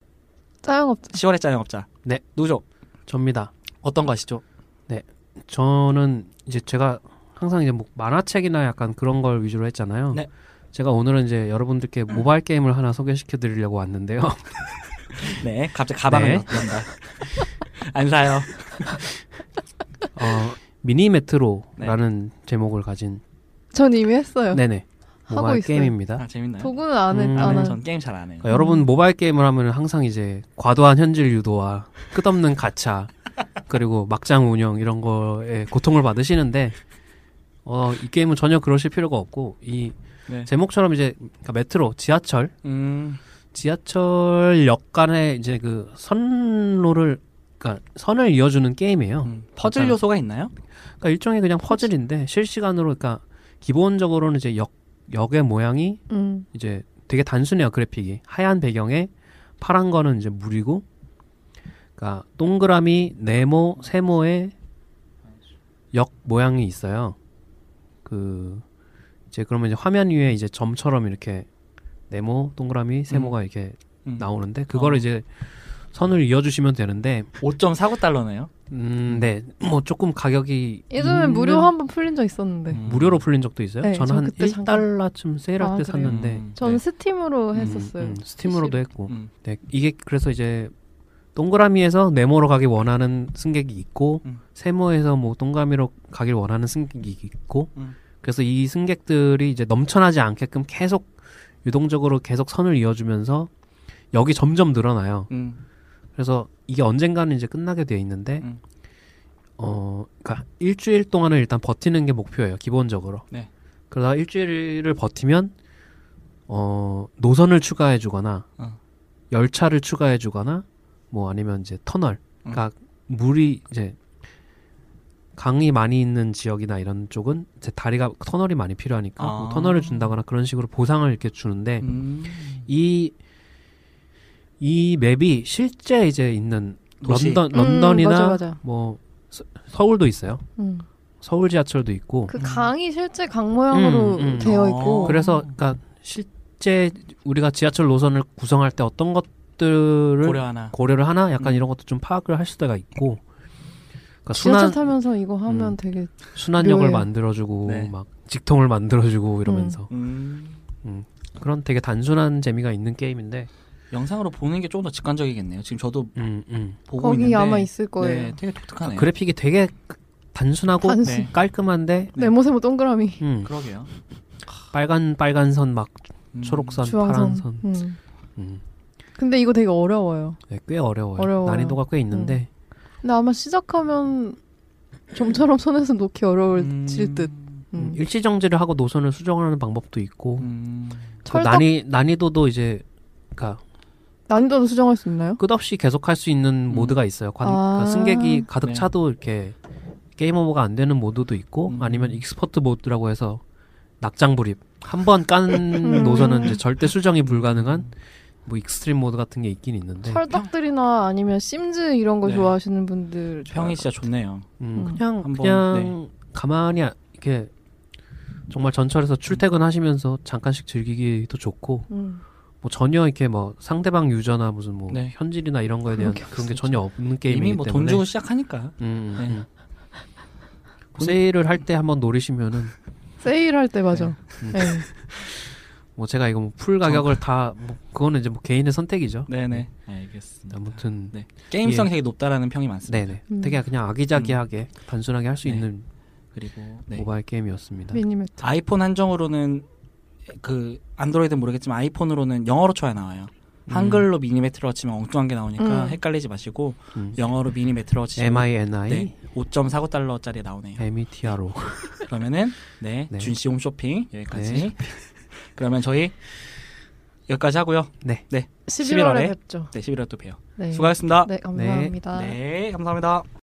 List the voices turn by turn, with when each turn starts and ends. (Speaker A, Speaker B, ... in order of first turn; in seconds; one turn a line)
Speaker A: 0.6-1.2
Speaker B: 1.1-2.6
Speaker C: 3.1-3.5
Speaker B: 3.8-4.4
Speaker C: 4.9-14.7
Speaker B: 15.2-19.1
Speaker C: 16.1-16.7
Speaker C: 20.1-23.2
Speaker A: 23.7-24.6
Speaker C: 24.5-26.2
Speaker A: 25.3-25.9
Speaker B: 26.2-26.8
Speaker A: 26.6-27.8
Speaker C: 27.1-27.8
Speaker B: 27.3-28.5
Speaker C: 28.4-36.8
Speaker A: 28.5-28.9
Speaker C: 37.6-42.5
Speaker B: 42.6-43.2
Speaker C: 43.5-50.0
Speaker B: 49.2-50.5
Speaker C: 51.0-60.9
Speaker A: 56.1-56.5
Speaker C: 62.0-64.5
Speaker C: 65.9-67.2
Speaker C: 68.0-68.7
Speaker C: 69.3-71.5
Speaker C: 72.1-77.3
Speaker B: 73.1-73.3
Speaker B: 74.1-75.0
Speaker B: 77.4-78.5
Speaker C: 78.7-81.7
Speaker A: 80.9-82.8
Speaker B: 82.7-83.2
Speaker C: 82.8-86.5
Speaker A: 83.8-84.9
Speaker A: 85.6-88.8
Speaker B: 86.0-86.8
Speaker B: 87.5-87.8
Speaker C: 87.6-90.7
Speaker C: 91.3-103.5
Speaker C: 104.1-105.3
Speaker B: 105.3-105.6
Speaker C: 106.2-108.5
Speaker C: 109.6-113.3
Speaker C: 113.9-115.5
Speaker C: 116.5-118.5
Speaker C: 119.3-124.0
Speaker C: 125.4-131.9
Speaker B: 129.2-130.2
Speaker B: 131.8-132.7
Speaker C: 132.7-133.1
Speaker C: 134.6-140.4
Speaker B: 137.0-137.5
Speaker A: 137.5-138.6
Speaker A: 140.6-140.9
Speaker C: 141.2-142.3
Speaker A: 142.3-145.2
Speaker B: 142.4-142.7
Speaker C: 143.7-153.2
Speaker B: 144.4-145.5
Speaker B: 150.2-150.8
Speaker B: 151.4-151.7
Speaker C: 154.2-154.9
Speaker A: 154.3-157.1
Speaker B: 155.5-155.8
Speaker C: 156.4-159.9
Speaker B: 157.7-157.9
Speaker A: 159.5-159.8
Speaker B: 159.9-160.6
Speaker C: 160.8-163.5
Speaker B: 163.9-166.2
Speaker C: 166.2-166.8
Speaker B: 166.9-169.1
Speaker A: 167.0-168.4
Speaker C: 168.8-172.2
Speaker A: 170.8-171.3
Speaker B: 171.0-171.3
Speaker A: 172.2-173.2
Speaker C: 173.2-173.5
Speaker B: 173.4-173.9
Speaker C: 174.7-177.8
Speaker B: 176.3-176.8
Speaker A: 176.8-178.0
Speaker C: 178.4-178.6
Speaker A: 179.2-180.4
Speaker C: 180.5-182.5
Speaker A: 181.2-182.4
Speaker A: 183.0-184.4
Speaker A: 185.1-188.0
Speaker B: 186.6-187.6
Speaker C: 187.7-190.5
Speaker B: 190.4-191.2
Speaker A: 191.3-191.7
Speaker C: 191.3-192.8
Speaker C: 193.3-193.6
Speaker A: 194.3-195.4
Speaker C: 195.4-199.6
Speaker B: 196.7-197.0
Speaker A: 197.4-198.5
Speaker B: 198.6-198.9
Speaker C: 200.2-203.4
Speaker B: 201.7-202.2
Speaker C: 204.0-207.9
Speaker A: 205.8-206.6
Speaker B: 207.4-207.9
Speaker C: 208.4-210.2
Speaker A: 210.0-214.1
Speaker B: 212.2-212.5
Speaker B: 213.5-214.5
Speaker C: 214.6-217.5
Speaker A: 214.7-215.0
Speaker B: 215.1-216.0
Speaker C: 218.5-221.9
Speaker A: 221.9-222.2
Speaker C: 222.6-228.1
Speaker B: 224.9-225.2
Speaker A: 226.0-226.2
Speaker B: 226.3-226.8
Speaker B: 227.3-229.4
Speaker C: 228.8-229.5
Speaker C: 231.0-232.7
Speaker A: 233.2-234.9
Speaker C: 234.4-235.4
Speaker C: 236.0-239.7
Speaker B: 236.8-237.2
Speaker B: 239.3-243.2
Speaker C: 240.5-241.9
Speaker C: 242.9-245.8
Speaker A: 243.3-243.6
Speaker B: 244.1-244.4
Speaker B: 246.3-247.1
Speaker C: 246.9-248.0
Speaker A: 247.9-248.4
Speaker B: 248.4-249.7
Speaker B: 250.3-260.9
Speaker C: 253.7-254.1
Speaker A: 255.6-256.0
Speaker C: 258.2-259.1
Speaker C: 260.8-262.1
Speaker B: 262.0-264.9
Speaker C: 264.3-264.7
Speaker B: 265.5-266.1
Speaker B: 267.3-271.3
Speaker A: 268.7-269.7
Speaker A: 270.6-272.4
Speaker C: 271.5-271.9
Speaker B: 272.1-273.3